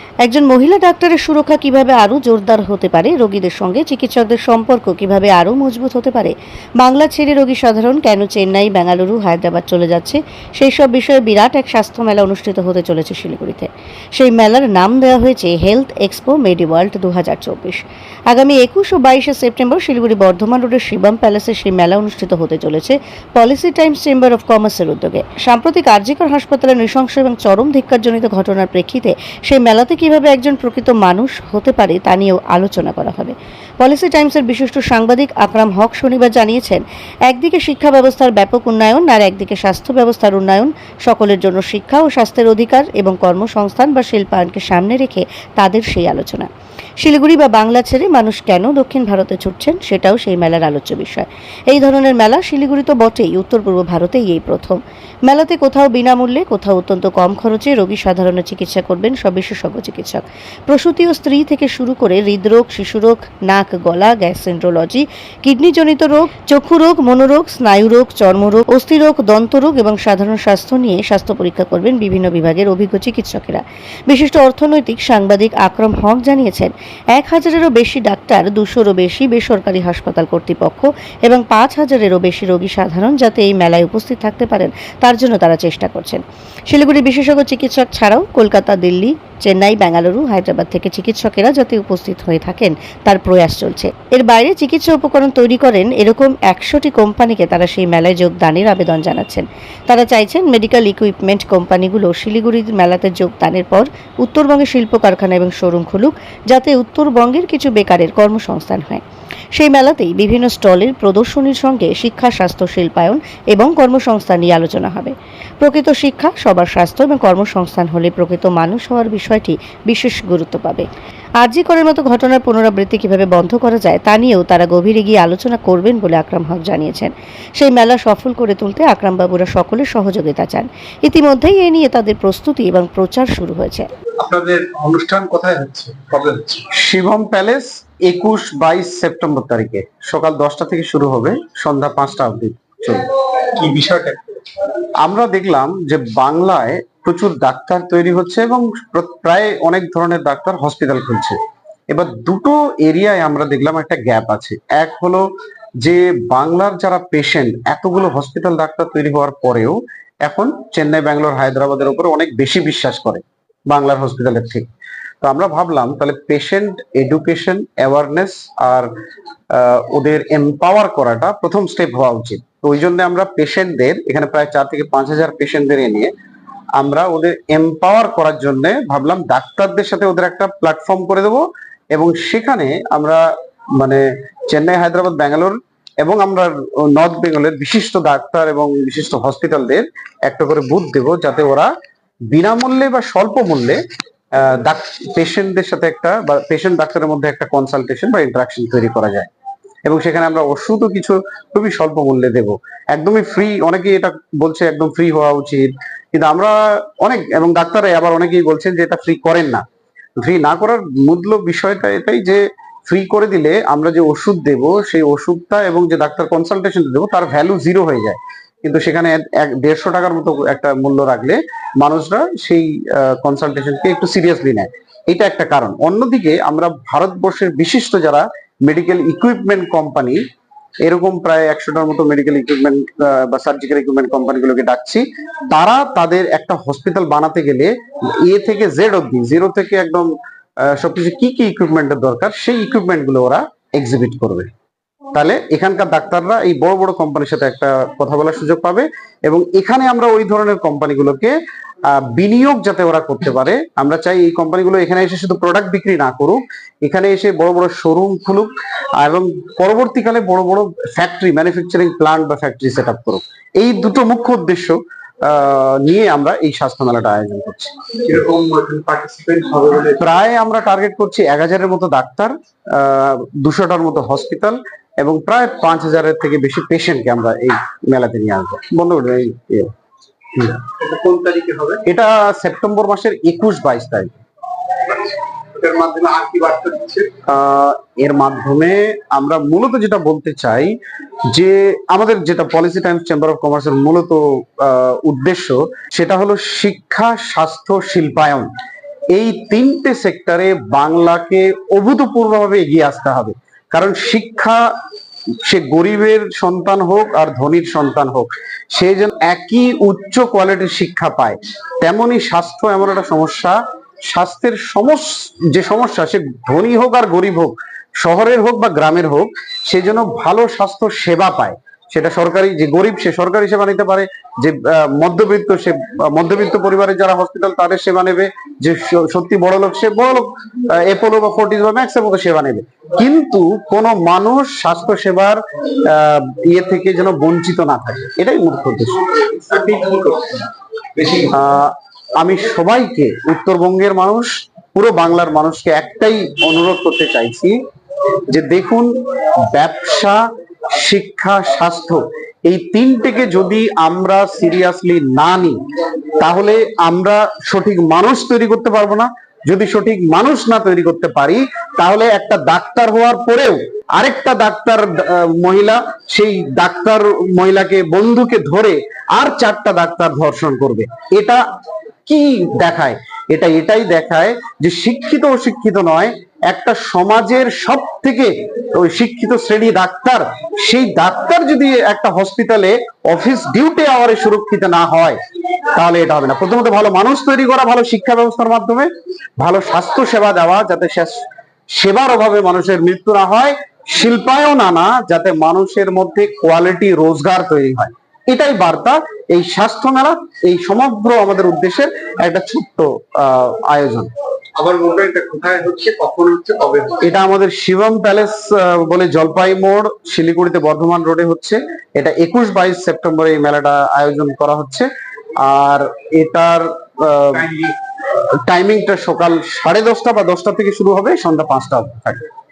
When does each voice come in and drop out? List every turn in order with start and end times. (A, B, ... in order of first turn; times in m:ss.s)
0:00.2-0:46.5 A
0:47.0-1:49.0 A
1:49.5-2:00.9 A
2:01.4-2:13.9 A
2:14.2-2:16.6 B
2:16.7-2:23.1 C
2:23.5-2:24.2 B
2:25.0-2:31.4 C
2:31.9-2:35.2 C
2:35.8-2:44.7 C
2:45.2-2:48.9 C
2:49.5-2:56.1 C
2:56.8-3:03.2 C
3:03.8-3:11.7 C
3:12.3-3:13.8 C
3:14.4-3:19.3 C
3:19.8-3:29.6 C
3:30.2-3:50.2 C
3:50.8-4:00.1 C
4:00.6-4:04.5 C
4:05.1-4:11.3 C
4:12.0-4:27.7 C
4:28.0-4:30.0 B
4:30.0-4:39.7 C
4:40.6-4:41.8 B
4:41.8-4:44.2 C
4:44.9-4:47.1 B
4:47.2-4:50.8 C
4:51.3-4:58.5 C
4:59.1-5:04.6 C
5:05.4-5:39.0 C
5:39.3-5:41.3 B
5:41.3-5:47.6 C
5:48.3-5:48.9 C
5:49.5-5:55.6 C
5:56.2-6:11.4 C
6:12.0-6:25.2 C
6:25.7-6:44.1 C
6:44.6-6:47.0 B
6:47.0-6:54.9 C
6:55.4-6:57.5 C
6:57.4-6:57.7 B
6:58.5-7:02.2 C